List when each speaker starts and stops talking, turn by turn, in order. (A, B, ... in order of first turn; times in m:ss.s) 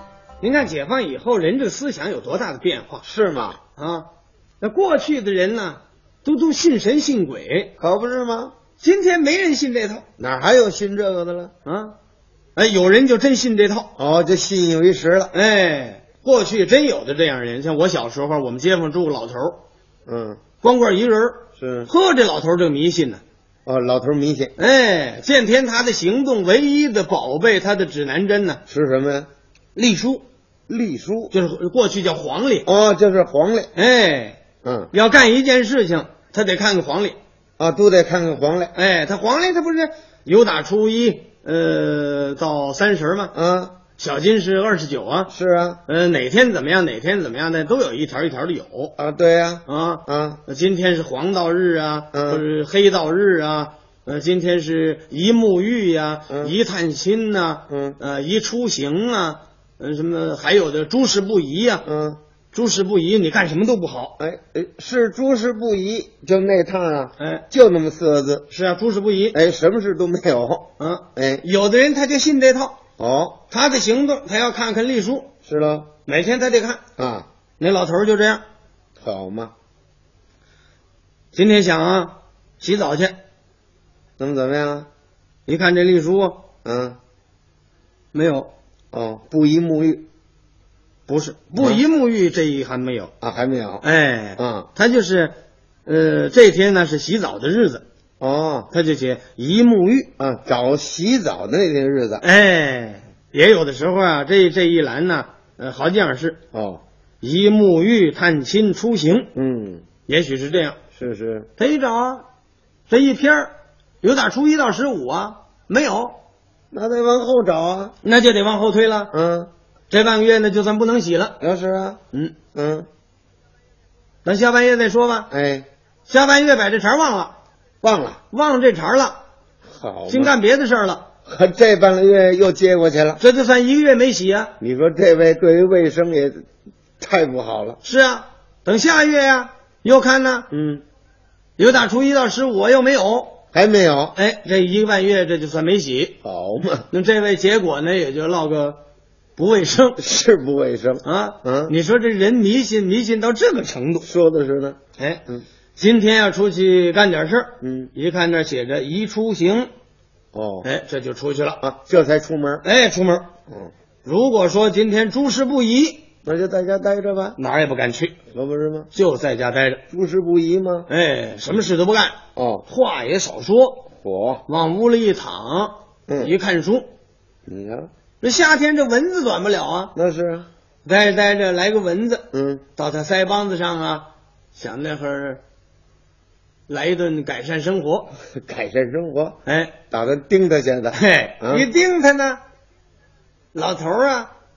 0:00.4-0:03.0 A
0:03.0-0:03.6 B
0:03.8-0:04.1 A
0:04.6-0:07.7 A
0:07.8-0:08.5 B
0:08.8-0:10.0 A
0:10.2-0:11.5 B
0:11.6-0:11.9 A
0:12.6-0:13.9 A
0:14.0-0:15.3 B
0:15.3-0:19.6 A
0:20.1-0:20.4 B
0:20.6-0:23.2 A
0:21.6-0:21.9 B
0:23.6-0:24.5 B
0:24.6-0:28.6 A
0:28.7-0:29.3 B
0:29.7-0:30.2 A
0:30.7-0:31.3 B
0:31.3-0:32.7 A
0:32.6-0:33.7 B
0:33.7-0:34.4 A
0:34.6-0:34.9 B
0:34.9-0:37.2 A
0:37.6-0:38.7 B
0:38.7-0:43.3 A
0:43.3-0:43.8 B
0:44.0-0:45.3 A
0:45.3-0:45.8 B
0:45.9-0:48.9 A
0:49.0-0:50.4 B
0:49.6-1:01.8 A
0:52.1-0:52.4 B
0:57.7-0:58.0 B
1:01.8-1:02.2 B
1:02.5-1:04.1 A
1:04.2-1:08.4 B
1:07.2-1:07.4 A
1:08.5-1:09.4 A
1:09.3-1:11.4 B
1:10.8-1:12.8 A
1:13.0-1:13.4 B
1:13.5-1:15.3 A
1:15.4-1:15.9 B
1:16.0-1:16.8 A
1:17.0-1:17.3 B
1:17.6-1:18.4 A
1:19.0-1:19.5 B
1:21.3-1:23.2 A
1:24.2-1:24.9 B
1:25.5-1:26.4 A
1:26.6-1:27.0 B
1:28.1-1:28.5 A
1:28.9-1:30.1 B
1:31.1-1:33.1 A
1:33.2-1:33.8 B
1:33.8-1:35.3 A
1:34.4-1:34.7 B
1:35.8-1:37.8 A
1:38.2-1:38.7 B
1:38.7-1:40.1 A
1:40.2-1:42.2 B
1:42.2-1:46.4 A
1:46.5-1:46.8 B
1:47.2-1:49.3 A
1:49.3-1:49.8 B
1:50.0-1:50.8 A
1:51.0-1:51.5 B
1:51.6-1:52.2 A
1:52.9-1:56.2 A
1:56.7-1:57.9 B
1:58.0-1:59.1 A
1:59.1-1:59.5 B
1:59.9-2:01.4 A
2:01.4-2:02.0 B
2:02.5-2:02.9 B
2:04.2-2:05.3 A
2:05.3-2:05.7 B
2:06.1-2:07.3 A
2:07.8-2:08.2 B
2:08.3-2:09.2 A
2:09.7-2:10.3 B
2:10.1-2:11.1 A
2:11.2-2:13.2 B
2:13.2-2:14.5 A
2:14.6-2:16.4 B
2:17.0-2:17.8 B
2:17.8-2:20.5 A
2:20.5-2:20.8 B
2:21.6-2:23.4 A
2:23.5-2:24.2 B
2:24.1-2:26.2 A
2:26.2-2:26.8 B
2:26.9-2:28.8 A
2:29.4-2:30.0 A
2:30.0-2:31.7 B
2:31.0-2:34.1 A
2:34.0-2:34.8 B
2:35.0-2:35.2 A
2:35.8-2:39.7 A
2:37.6-2:37.9 B
2:40.3-2:40.7 B
2:40.6-2:41.6 A
2:41.6-2:42.6 B
2:42.6-2:43.3 A
2:44.0-2:46.0 A
2:46.2-2:47.4 B
2:47.4-2:48.2 A
2:48.3-2:48.9 B
2:48.9-2:49.8 A
2:49.9-2:50.9 B
2:50.9-2:53.9 A
2:52.4-2:52.6 B
2:54.0-2:54.4 B
2:54.5-2:56.9 A
2:56.1-2:56.3 B
2:57.5-2:57.9 B
2:58.2-2:59.9 A
2:59.9-3:00.5 B
3:00.8-3:05.4 A
3:02.3-3:02.6 B
3:06.7-3:08.2 A
3:08.3-3:09.4 B
3:09.4-3:09.8 A
3:09.9-3:11.7 B
3:10.9-3:12.4 A
3:13.5-3:14.3 A